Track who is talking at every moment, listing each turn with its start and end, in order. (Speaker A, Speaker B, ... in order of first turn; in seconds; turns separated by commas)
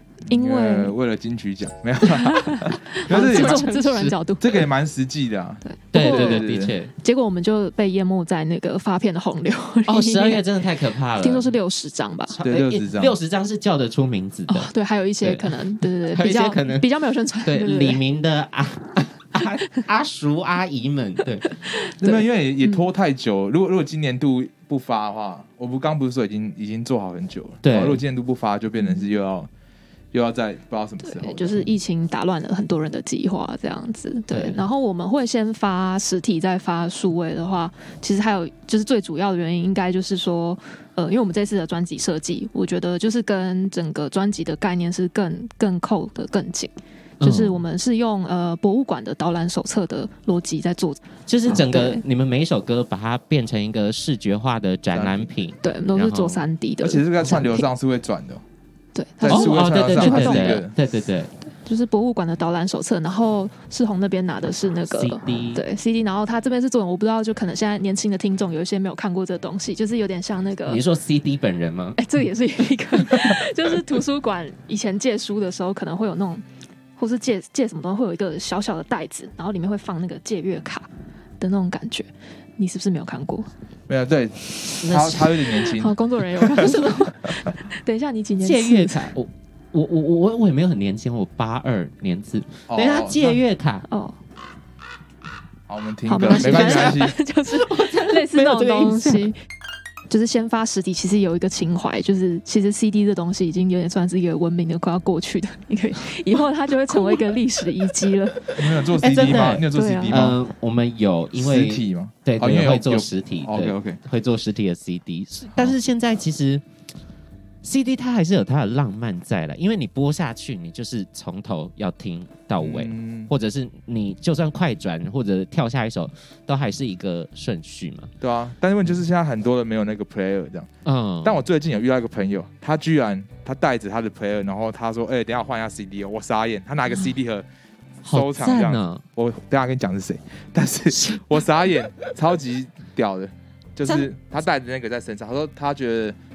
Speaker A: 0.3-0.9, Speaker B: 0.3-6.7, Speaker A: 2.0-4.7, Speaker C: 3.1-4.0, Speaker A: 5.6-10.4, Speaker C: 5.9-6.9, Speaker C: 9.9-11.5, Speaker A: 11.2-12.4, Speaker C: 12.3-14.7, Speaker B: 12.4-13.2, Speaker A: 14.5-18.0, Speaker C: 15.2-15.6, Speaker C: 16.1-16.9, Speaker C: 17.4-21.5, Speaker A: 21.8-22.8, Speaker B: 22.0-29.5, Speaker C: 27.6-28.0, Speaker B: 30.1-31.7, Speaker A: 31.0-52.0, Speaker C: 34.3-34.6, Speaker C: 47.2-47.6, Speaker C: 51.3-56.4, Speaker B: 54.9-55.3, Speaker A: 55.6-57.7, Speaker B: 56.8-58.4, Speaker A: 58.9-60.6, Speaker B: 59.2-60.7, Speaker C: 59.3-61.3, Speaker A: 61.5-70.8, Speaker C: 64.9-65.6, Speaker C: 70.7-72.0, Speaker A: 72.0-76.4, Speaker A: 77.0-80.9, Speaker A: 81.4-83.5, Speaker B: 83.9-86.8, Speaker C: 84.8-85.3, Speaker A: 85.5-89.1, Speaker C: 88.4-93.9, Speaker B: 92.7-93.4, Speaker A: 93.9-94.2, Speaker B: 95.7-97.1, Speaker A: 96.0-99.4, Speaker C: 96.2-99.3, Speaker A: 100.1-108.5, Speaker B: 108.5-110.4, Speaker C: 109.0-116.6, Speaker A: 109.7-110.2, Speaker B: 111.3-114.0, Speaker C: 117.6-128.1, Speaker B: 122.6-123.3, Speaker B: 128.2-130.7, Speaker C: 130.8-131.4, Speaker B: 131.2-137.4, Speaker B: 138.0-146.2, Speaker C: 138.0-139.0, Speaker C: 140.9-141.3